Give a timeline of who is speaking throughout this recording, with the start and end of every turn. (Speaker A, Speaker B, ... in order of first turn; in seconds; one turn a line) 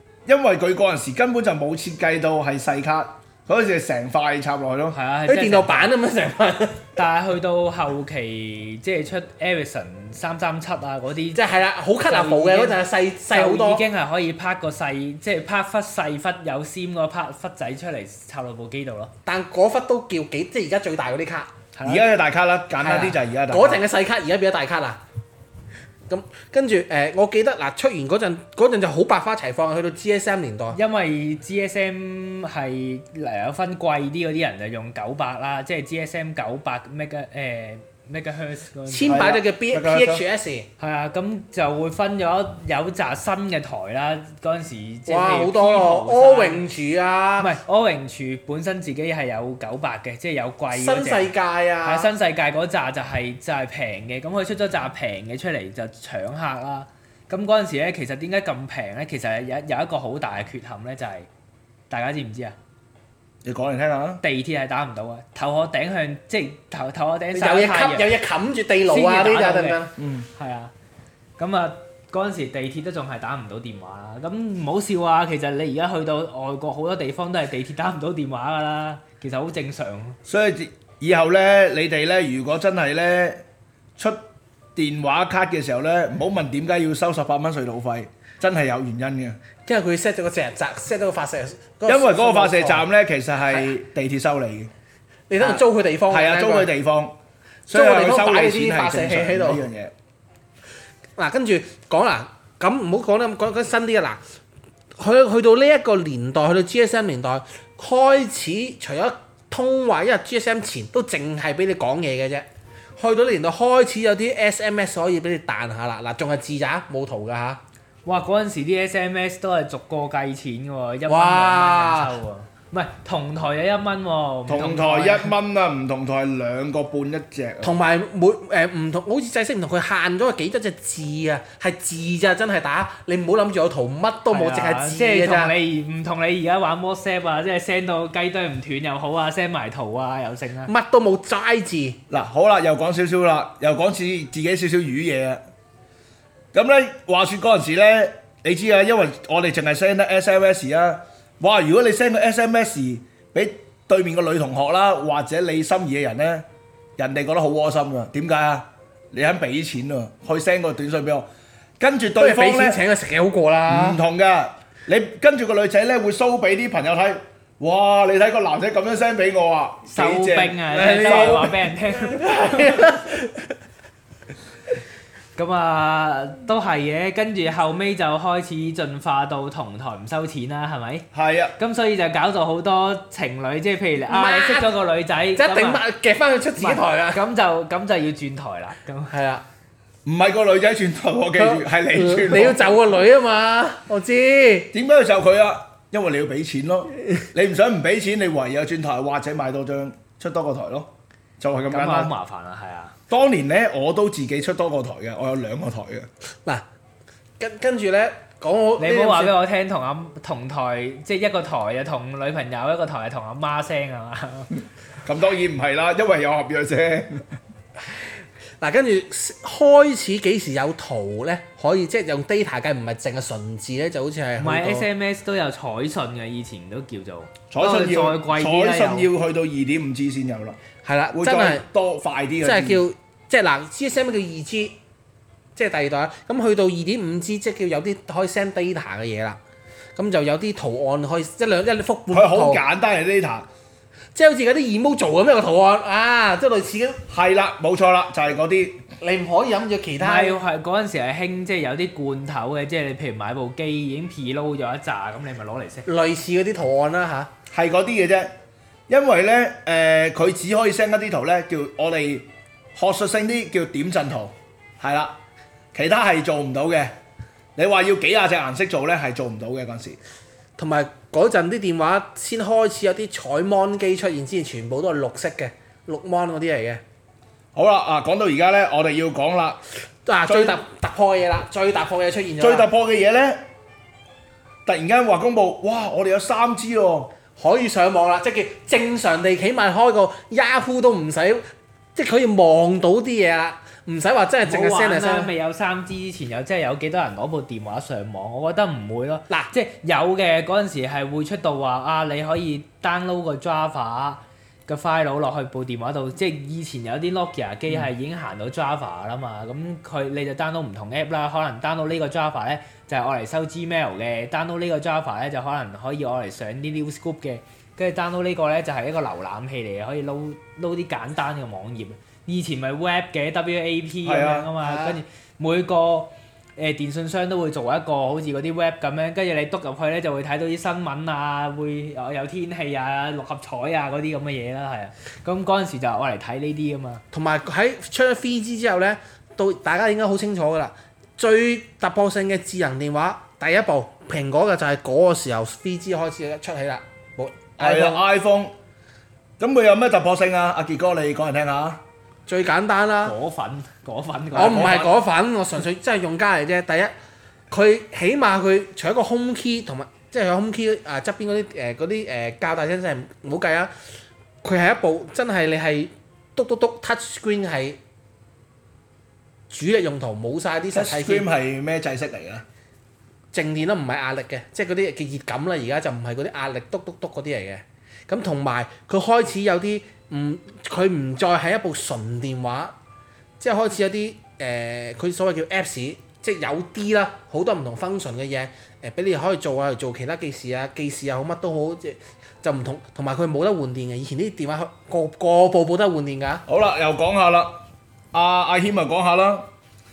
Speaker A: 0.3-5.0
Speaker B: 4.9-5.9
Speaker C: 5.3-6.9
Speaker B: 7.0-11.4
Speaker C: 11.3-13.8
Speaker B: 12.1-12.8
Speaker B: 13.3-19.1
Speaker C: 19.3-21.5
Speaker B: 21.7-22.1
Speaker A: 21.8-23.8
Speaker C: 22.8-25.0
Speaker C: 26.1-30.8
Speaker B: 30.7-39.2
Speaker C: 38.9-40.7
Speaker A: 39.1-40.2
Speaker B: 40.8-46.6
Speaker C: 45.1-47.5
Speaker B: 47.4-51.3
Speaker C: 50.7-52.1
Speaker B: 51.8-61.3
Speaker B: 61.9-62.5
Speaker A: 63.4-64.2
Speaker B: 64.2-68.1
Speaker C: 67.3-70.0
Speaker B: 68.9-69.8
Speaker A: 70.0-70.3
Speaker B: 70.4-70.7
Speaker B: 71.4-80.2
Speaker A: 80.3-83.4
Speaker A: 84.8-89.4
Speaker C: 89.7-92.8
Speaker A: 91.9-94.7
Speaker C: 95.3-96.7
Speaker A: 95.4-97.2
Speaker C: 97.7-99.6
Speaker A: 97.7-99.9
Speaker C: 101.2-104.2
Speaker C: 105.0-112.5
Speaker C: 113.0-117.6
Speaker B: 118.0-125.3
Speaker C: 121.1-122.2
Speaker A: 124.5-127.7
Speaker C: 127.6-135.5
Speaker B: 134.3-140.7
Speaker C: 140.7-142.0
Speaker A: 142.1-145.4
Speaker A: 146.5-156.4
Speaker A: 157.0-161.3
Speaker A: 161.8-162.8
Speaker C: 162.2-164.0
Speaker A: 163.7-171.5
Speaker B: 169.9-172.9
Speaker C: 170.7-173.3
Speaker B: 175.4-181.1
Speaker A: 181.1-181.6
Speaker B: 181.6-185.8
Speaker C: 184.1-184.8
Speaker C: 185.4-187.2
Speaker B: 186.6-189.1
Speaker C: 189.1-189.4
Speaker A: 190.1-192.8
Speaker C: 191.4-194.7
Speaker A: 194.7-202.1
Speaker B: 201.7-202.9
Speaker A: 203.1-206.1
Speaker C: 207.4-209.3
Speaker B: 208.8-214.5
Speaker A: 214.6-217.3
Speaker C: 218.6-224.9
Speaker B: 224.4-229.1
Speaker A: 227.5-230.6
Speaker C: 230.8-231.6
Speaker A: 231.1-232.8
Speaker C: 232.4-234.7
Speaker C: 235.6-239.4
Speaker C: 239.9-242.6
Speaker A: 242.1-243.4
Speaker C: 244.1-247.0
Speaker A: 247.1-248.8
Speaker C: 249.0-250.4
Speaker B: 250.0-255.9
Speaker C: 255.9-257.3
Speaker A: 257.5-258.3
Speaker A: 258.9-265.2
Speaker A: 265.7-266.9
Speaker A: 267.6-270.0
Speaker C: 270.6-276.8
Speaker A: 277.5-279.6
Speaker C: 280.1-282.7
Speaker A: 280.3-280.6
Speaker A: 282.4-283.4
Speaker A: 284.7-287.1
Speaker C: 287.4-291.4
Speaker C: 291.9-295.3
Speaker B: 294.4-337.0
Speaker A: 324.1-324.5
Speaker C: 324.6-324.9
Speaker C: 337.1-348.0
Speaker A: 347.6-348.5
Speaker A: 349.4-351.8
Speaker C: 352.3-353.2
Speaker B: 353.0-354.9
Speaker C: 354.3-356.9
Speaker C: 357.5-363.7
Speaker C: 364.4-367.8
Speaker C: 369.5-371.3
Speaker A: 370.7-372.4
Speaker C: 373.3-382.7
Speaker C: 383.4-396.4
Speaker A: 396.4-397.6
Speaker A: 398.1-399.5